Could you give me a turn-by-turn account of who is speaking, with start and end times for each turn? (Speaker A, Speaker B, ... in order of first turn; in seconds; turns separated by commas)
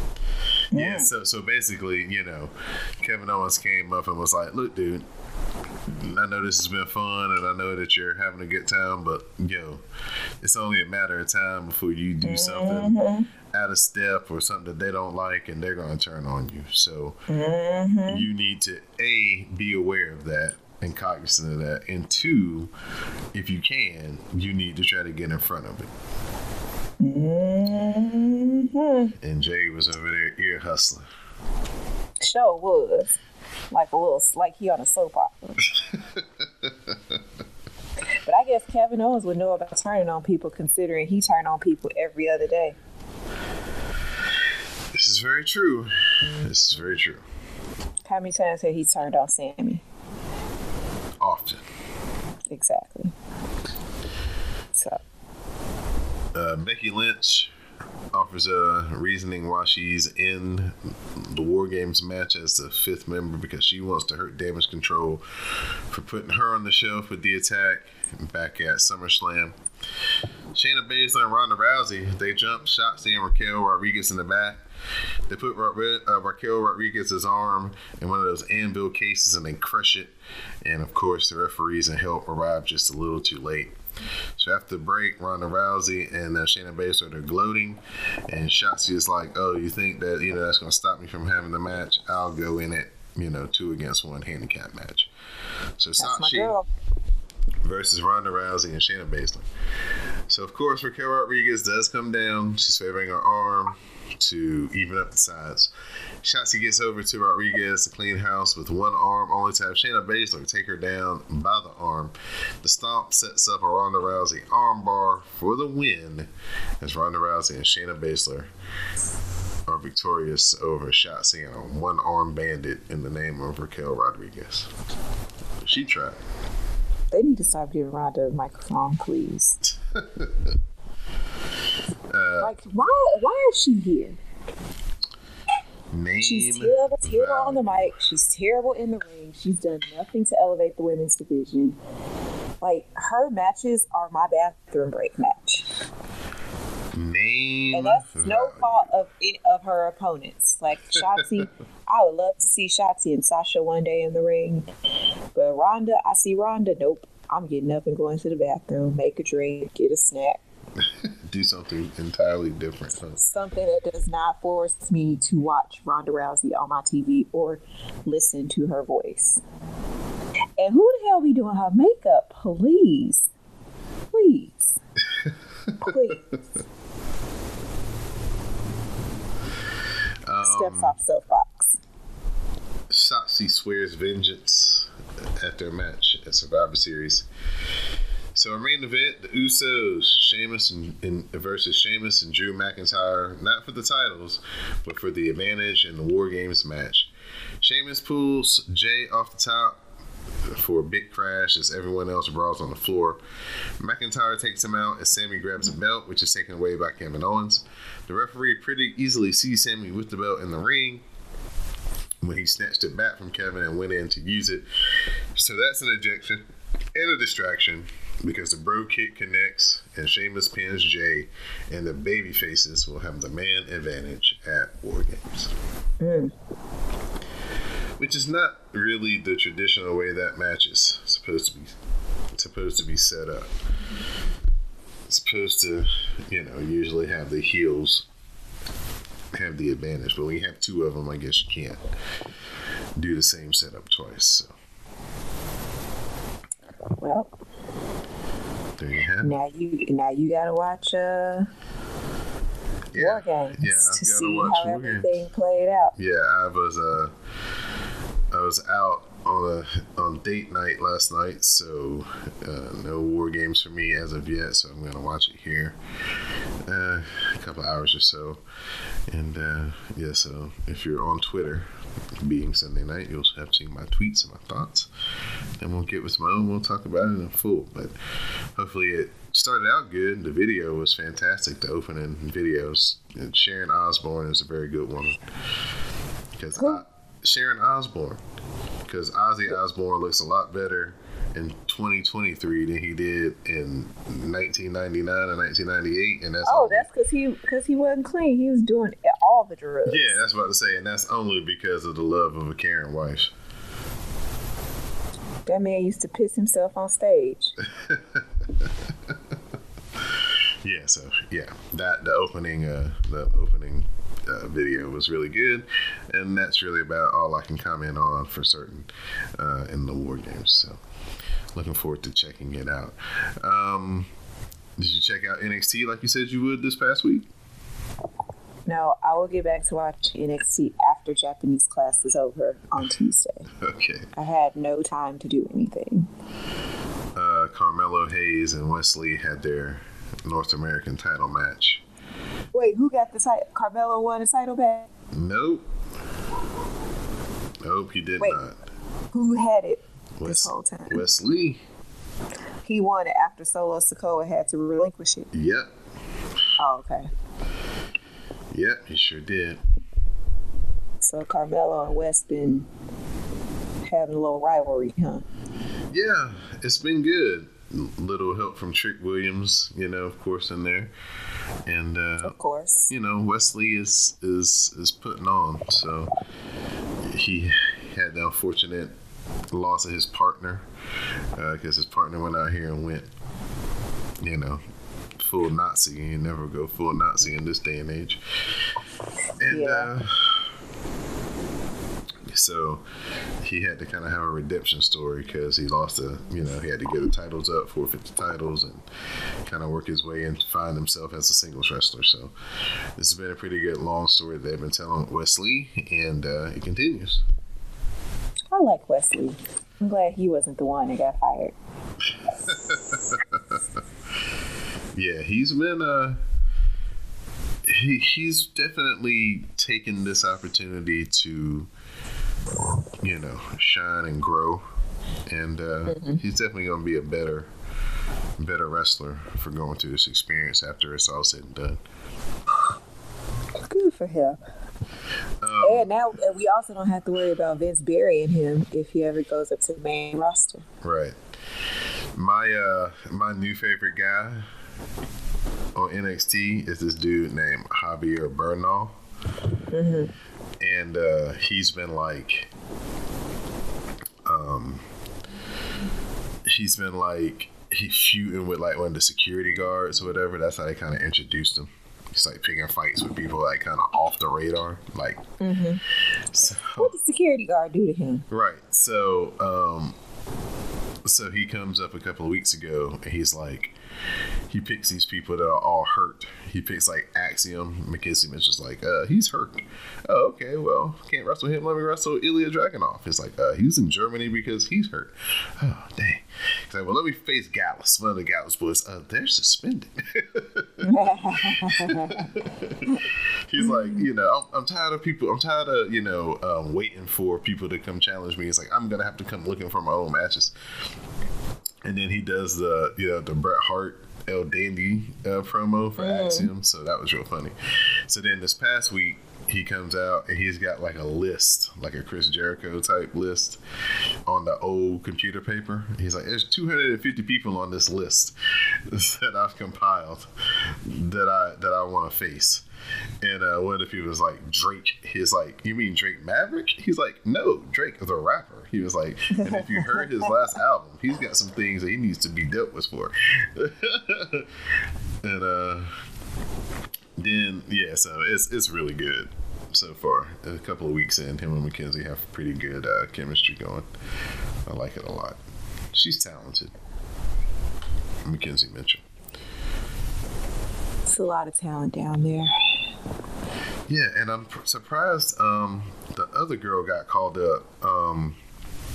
Speaker A: 0.7-1.1, Speaker B: 0.7-5.1, Speaker B: 5.9-9.8, Speaker B: 10.4-12.9, Speaker A: 12.2-13.3, Speaker B: 13.5-17.2, Speaker A: 17.3-18.3, Speaker B: 18.1-22.7, Speaker B: 23.3-25.9, Speaker A: 27.0-29.1, Speaker B: 29.2-31.1, Speaker A: 32.2-33.2, Speaker A: 33.7-35.6, Speaker B: 35.9-37.2, Speaker A: 38.2-42.8, Speaker B: 44.9-47.2, Speaker A: 48.0-49.8, Speaker B: 51.2-51.6, Speaker A: 52.5-53.1, Speaker A: 54.7-55.0, Speaker B: 56.3-57.5, Speaker B: 58.1-69.6, Speaker B: 70.5-74.6, Speaker B: 75.3-83.8, Speaker B: 84.3-95.1, Speaker B: 95.8-96.5, Speaker A: 96.0-96.7, Speaker B: 97.6-99.5, Speaker B: 100.3-118.5, Speaker B: 119.7-124.7, Speaker B: 125.6-126.2, Speaker A: 127.1-129.6, Speaker B: 129.9-130.5, Speaker B: 132.1-132.6, Speaker A: 132.4-134.2, Speaker B: 135.9-138.0, Speaker A: 136.2-141.8, Speaker A: 142.6-145.7, Speaker B: 146.9-148.9, Speaker A: 147.7-154.7, Speaker B: 150.9-151.5, Speaker A: 155.3-160.4, Speaker B: 160.8-163.2, Speaker A: 163.1-169.4, Speaker A: 170.6-173.3, Speaker A: 174.1-174.8, Speaker B: 175.2-176.1, Speaker A: 175.8-176.6, Speaker B: 180.2-180.9, Speaker A: 180.4-181.8, Speaker B: 182.9-187.3, Speaker B: 188.3-199.8, Speaker B: 200.4-203.2, Speaker B: 203.8-211.0, Speaker B: 212.2-225.5, Speaker A: 226.0-226.3, Speaker B: 228.0-231.8, Speaker B: 232.3-233.5, Speaker B: 235.1-238.1, Speaker B: 239.3-241.9, Speaker B: 242.9-244.5, Speaker A: 247.0-247.3, Speaker B: 248.8-249.3, Speaker A: 249.2-251.5, Speaker B: 252.9-255.2, Speaker A: 252.9-255.9, Speaker B: 255.9-257.1, Speaker B: 258.3-265.8, Speaker B: 266.6-268.4, Speaker B: 269.1-274.9, Speaker B: 275.6-277.9, Speaker B: 278.5-285.3, Speaker B: 286.4-288.2, Speaker B: 288.9-296.9, Speaker A: 296.4-300.2, Speaker B: 299.8-303.3, Speaker A: 305.4-307.5, Speaker B: 307.7-309.1, Speaker B: 310.1-320.8, Speaker B: 321.5-324.1, Speaker B: 324.8-327.3, Speaker A: 328.6-333.5, Speaker B: 333.6-334.1, Speaker A: 334.1-336.1, Speaker B: 337.1-341.8, Speaker A: 342.5-344.9, Speaker B: 345.1-345.7, Speaker B: 347.6-348.6, Speaker A: 349.1-351.0, Speaker B: 350.2-351.6, Speaker A: 352.6-355.3, Speaker B: 355.3-355.7, Speaker A: 356.6-357.1, Speaker B: 358.5-359.6, Speaker A: 361.0-362.7, Speaker A: 363.8-365.2, Speaker B: 365.9-370.9, Speaker B: 371.6-372.3, Speaker A: 372.2-372.9, Speaker B: 372.9-376.1, Speaker B: 377.0-378.9, Speaker B: 379.5-380.6, Speaker B: 381.3-383.1, Speaker B: 384.2-384.6, Speaker B: 385.2-388.6, Speaker B: 389.4-390.5, Speaker A: 389.5-389.9, Speaker B: 392.2-392.8, Speaker B: 393.4-398.9, Speaker B: 399.4-402.3, Speaker B: 403.0-407.2, Speaker A: 408.5-411.6, Speaker B: 412.4-413.6, Speaker B: 414.9-416.2, Speaker B: 417.6-421.7, Speaker B: 423.0-424.7, Speaker B: 425.3-427.5, Speaker A: 425.9-426.2, Speaker B: 428.4-431.8, Speaker A: 433.6-434.4, Speaker B: 435.4-435.9, Speaker A: 435.6-440.6, Speaker B: 440.8-441.2, Speaker B: 442.1-444.5, Speaker B: 445.7-449.0, Speaker A: 449.7-450.1, Speaker B: 450.6-452.5, Speaker B: 454.2-454.9, Speaker B: 456.4-465.3, Speaker A: 465.4-465.8, Speaker B: 466.3-466.9, Speaker A: 466.7-468.2, Speaker B: 468.3-470.0, Speaker B: 471.0-473.8, Speaker B: 474.5-490.9, Speaker A: 490.8-492.3, Speaker B: 491.5-500.5, Speaker A: 493.6-494.0, Speaker B: 501.8-513.6, Speaker A: 506.0-506.5, Speaker B: 514.2-522.6, Speaker B: 523.2-534.6, Speaker A: 529.3-530.4, Speaker B: 535.2-536.0, Speaker B: 537.1-543.9, Speaker B: 544.6-545.4, Speaker B: 545.9-546.7, Speaker B: 548.2-549.0, Speaker A: 551.0-552.8, Speaker B: 553.9-558.4